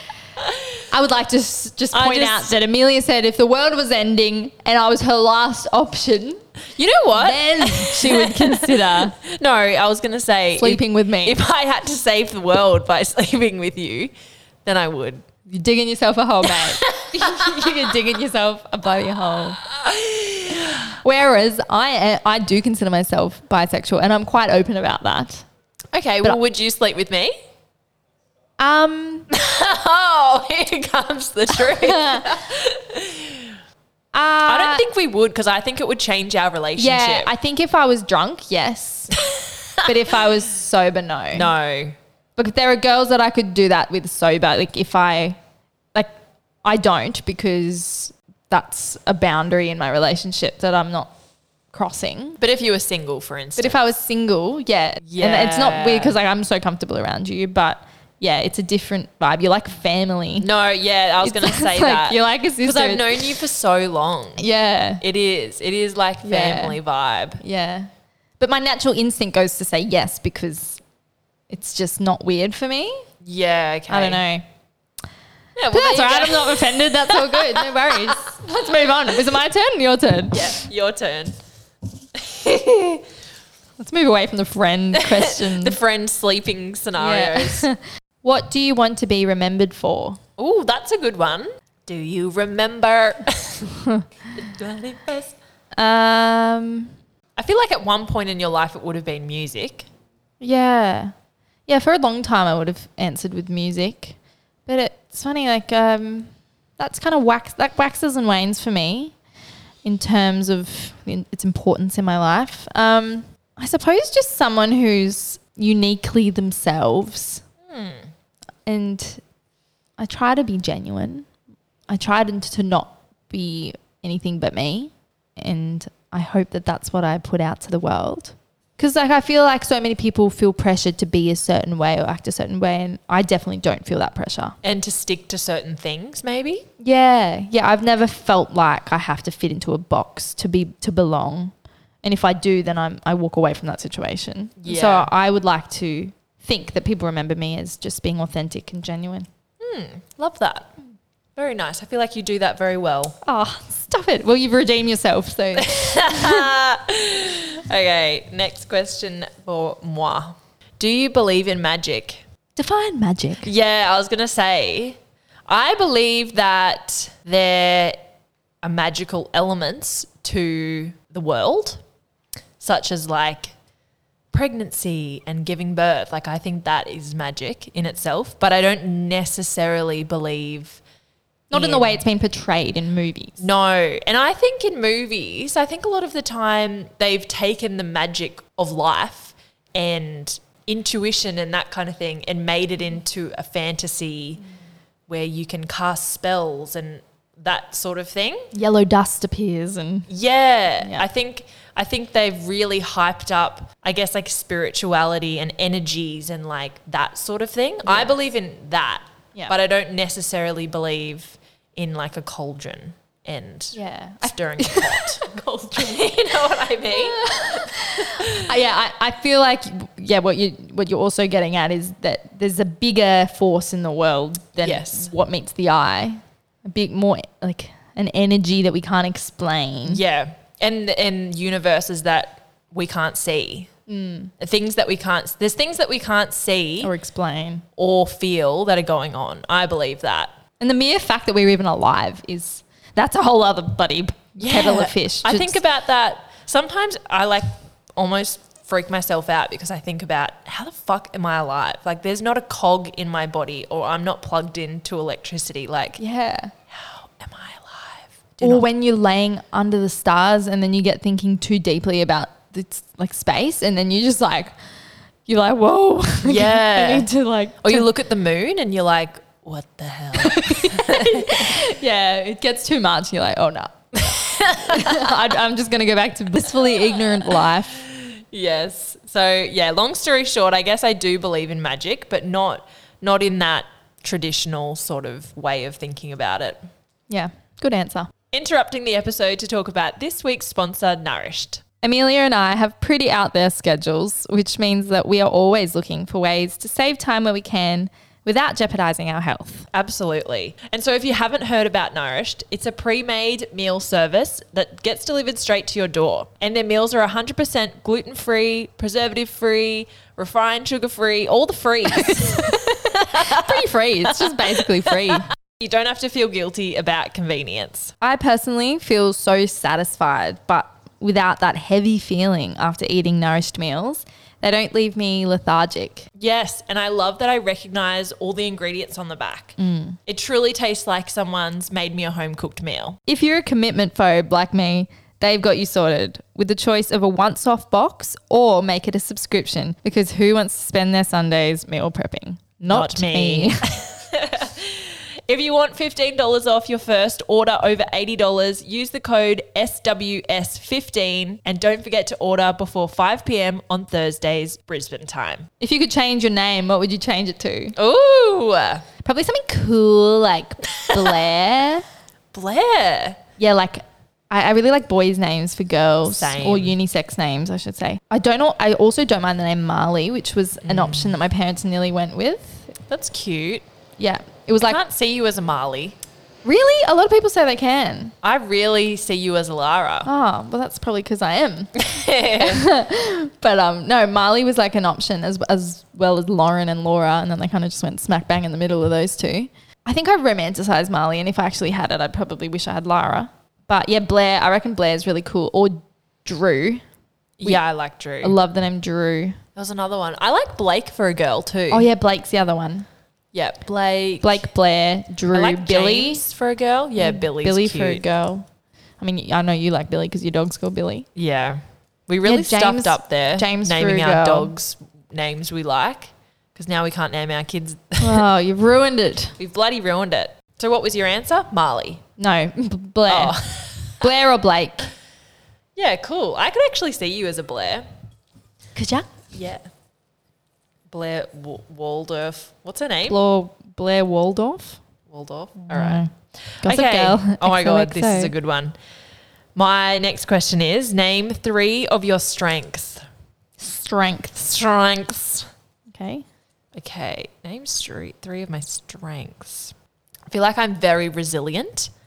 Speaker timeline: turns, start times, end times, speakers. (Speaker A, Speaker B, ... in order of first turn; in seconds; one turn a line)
Speaker A: 0.4-0.8
Speaker B: 0.9-6.4
Speaker A: 1.9-2.6
Speaker A: 6.8-14.1
Speaker B: 7.1-9.2
Speaker B: 10.6-11.4
Speaker A: 14.7-15.2
Speaker B: 15.5-19.6
Speaker A: 16.4-17.8
Speaker A: 19.6-20.9
Speaker B: 20.6-25.4
Speaker A: 25.9-27.3
Speaker B: 28.6-29.3
Speaker A: 29.3-33.6
Speaker B: 31.5-32.5
Speaker B: 34.1-34.9
Speaker A: 34.5-37.3
Speaker B: 36.8-39.2
Speaker A: 39.1-40.0
Speaker B: 39.8-41.5
Speaker A: 41.3-42.0
Speaker B: 42.4-45.4
Speaker B: 46.6-51.1
Speaker B: 51.7-52.4
Speaker A: 52.4-53.8
Speaker B: 53.6-60.5
Speaker A: 55.0-56.2
Speaker A: 60.4-64.5
Speaker B: 61.2-63.4
Speaker B: 64.4-65.0
Speaker A: 65.0-67.4
Speaker B: 66.2-66.8
Speaker B: 67.4-67.9
Speaker B: 68.4-70.8
Speaker B: 71.5-73.1
Speaker A: 73.2-74.2
Speaker B: 73.9-74.4
Speaker A: 75.6-78.2
Speaker B: 75.7-80.6
Speaker A: 80.3-81.4
Speaker A: 82.2-83.1
Speaker B: 83.8-85.8
Speaker A: 85.0-87.7
Speaker B: 87.0-90.2
Speaker A: 90.4-93.8
Speaker A: 94.3-95.4
Speaker B: 95.8-96.9
Speaker A: 97.4-99.9
Speaker B: 100.4-101.1
Speaker B: 101.7-109.1
Speaker B: 109.8-117.4
Speaker A: 117.7-118.1
Speaker B: 118.7-119.2
Speaker B: 120.0-121.3
Speaker B: 121.9-134.6
Speaker A: 134.6-136.7
Speaker B: 136.8-141.5
Speaker B: 142.0-149.3
Speaker A: 144.6-145.1
Speaker A: 149.6-150.7
Speaker A: 151.4-153.2
Speaker B: 153.2-156.5
Speaker A: 155.6-162.2
Speaker B: 162.6-163.5
Speaker A: 163.4-168.1
Speaker A: 168.6-171.8
Speaker A: 172.6-173.5
Speaker A: 174.3-180.8
Speaker B: 181.5-183.4
Speaker A: 181.5-182.0
Speaker A: 183.4-194.4
Speaker A: 195.1-198.5
Speaker B: 198.5-200.1
Speaker A: 200.1-218.5
Speaker B: 200.8-201.1
Speaker B: 207.9-208.2
Speaker B: 213.7-216.0
Speaker B: 216.9-230.0
Speaker A: 224.6-225.1
Speaker A: 229.9-233.7
Speaker B: 233.9-234.3
Speaker A: 234.4-236.9
Speaker B: 236.8-237.7
Speaker A: 237.8-240.3
Speaker B: 240.6-245.6
Speaker A: 244.4-256.0
Speaker B: 256.0-256.5
Speaker A: 256.7-258.6
Speaker B: 258.4-264.5
Speaker B: 265.3-267.9
Speaker A: 266.2-267.1
Speaker A: 267.6-271.7
Speaker B: 270.2-277.8
Speaker A: 274.0-275.2
Speaker A: 276.7-286.6
Speaker B: 287.1-288.1
Speaker A: 288.3-291.6
Speaker B: 291.8-299.7
Speaker A: 299.7-317.9
Speaker B: 311.9-315.3
Speaker B: 318.0-326.1
Speaker A: 326.1-329.6
Speaker B: 329.6-330.0
Speaker A: 330.1-333.0
Speaker B: 333.1-343.6
Speaker A: 342.7-355.5
Speaker B: 355.6-357.8
Speaker A: 357.8-358.9
Speaker B: 359.0-361.9
Speaker A: 360.8-361.2
Speaker A: 362.3-363.2
Speaker B: 363.4-372.8
Speaker A: 366.1-366.8
Speaker A: 370.6-371.2
Speaker A: 372.9-373.6
Speaker B: 374.0-374.8
Speaker A: 374.6-376.0
Speaker B: 376.4-378.1
Speaker A: 378.2-380.1
Speaker B: 380.1-381.8
Speaker A: 381.8-382.7
Speaker B: 382.3-396.8
Speaker A: 397.4-398.4
Speaker B: 398.2-399.4
Speaker A: 399.6-401.9
Speaker B: 401.7-402.9
Speaker A: 403.3-404.4
Speaker B: 404.2-406.2
Speaker A: 405.3-408.0
Speaker B: 407.0-408.4
Speaker B: 409.0-411.1
Speaker A: 411.1-418.2
Speaker B: 412.2-414.5
Speaker B: 418.0-419.4
Speaker A: 419.4-422.0
Speaker B: 422.2-423.4
Speaker A: 423.1-424.1
Speaker B: 423.9-424.9
Speaker A: 425.8-427.9
Speaker B: 428.8-429.1
Speaker A: 429.3-429.7
Speaker A: 430.9-433.2
Speaker B: 433.1-434.8
Speaker A: 435.1-438.7
Speaker B: 435.6-436.1
Speaker B: 436.6-438.3
Speaker A: 439.6-443.1
Speaker B: 443.6-444.5
Speaker A: 444.4-445.5
Speaker B: 445.9-446.2
Speaker A: 446.7-449.7
Speaker A: 450.3-451.9